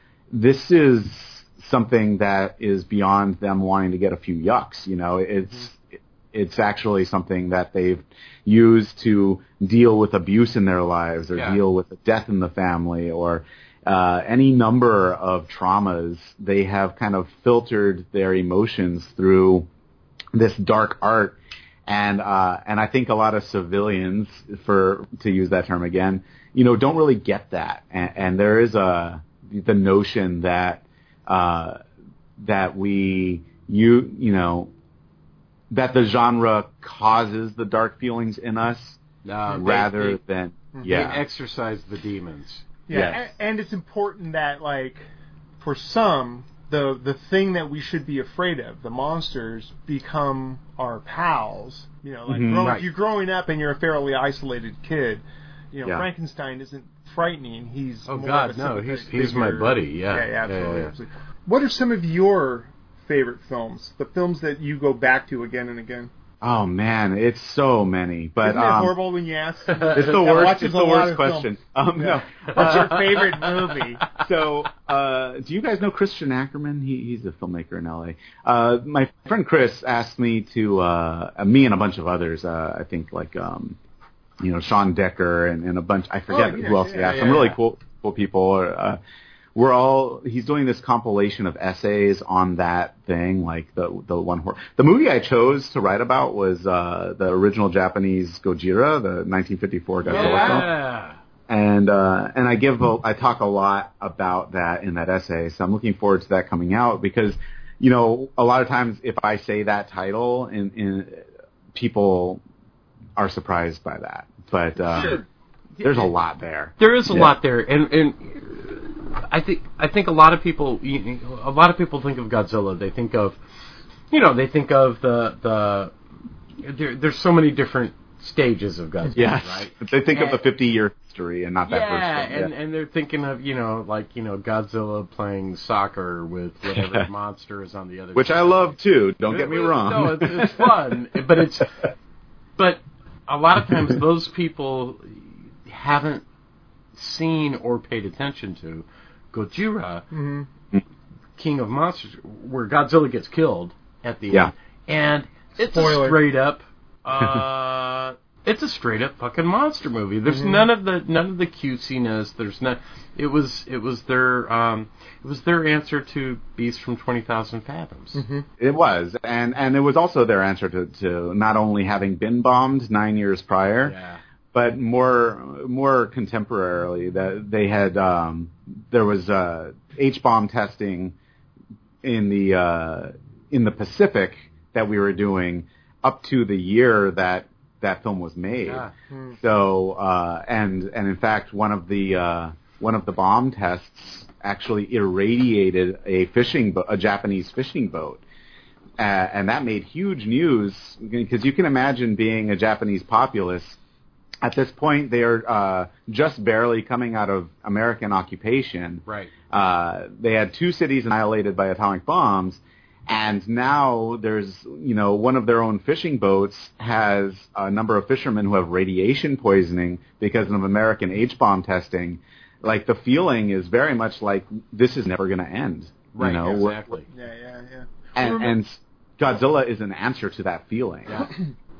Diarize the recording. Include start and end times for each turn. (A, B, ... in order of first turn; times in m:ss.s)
0:00.3-0:19.7 A
0:11.3-0:11.6 B
0:20.3-0:31.8 A
0:32.4-0:34.7 A
0:35.7-0:39.0 A
0:39.2-0:40.2 B
0:39.6-0:41.2 A
0:40.7-0:41.1 C
0:40.8-0:42.7 B
0:42.9-0:45.0 C
0:42.9-0:43.2 A
0:45.6-1:06.1 C
0:52.3-0:52.8 A
0:52.6-0:52.9 B
0:58.1-1:00.9 B
1:06.4-1:08.9 A
1:08.4-1:14.0 C
1:09.7-1:10.1 B
1:09.9-1:13.1 A
1:12.6-1:14.2 B
1:14.2-1:23.8 A
1:24.4-1:29.0 A
1:26.3-1:27.4 C
1:27.1-1:27.6 B
1:29.6-1:40.7 A
1:40.0-1:41.2 B
1:40.2-1:40.6 C
1:41.5-1:52.4 A
1:53.2-1:55.2 A
1:54.9-1:55.2 B
1:55.8-1:56.1 B
1:55.8-1:57.3 A
1:56.8-2:03.4 B
2:04.1-2:05.9 B
2:06.6-2:10.4 B
2:09.1-2:12.5 A
2:11.7-2:21.8 B
2:16.7-2:17.1 A
2:18.2-2:20.8 A
2:22.6-2:26.2 B
2:27.0-2:30.1 B
2:30.1-2:30.5 C
2:31.4-2:48.2 B
2:35.6-2:36.2 C
2:40.3-2:40.7 C
2:48.1-2:48.5 C
2:48.6-2:54.0 A
2:53.8-2:54.2 B
2:54.5-3:01.2 A
3:02.0-3:18.2 A
3:08.6-3:08.9 B
3:09.1-3:09.4 C
3:19.0-3:23.8 A
3:24.4-3:46.9 A
3:29.1-3:29.3 B
3:46.1-3:47.1 B
3:47.1-3:48.5 C
3:48.2-3:51.2 A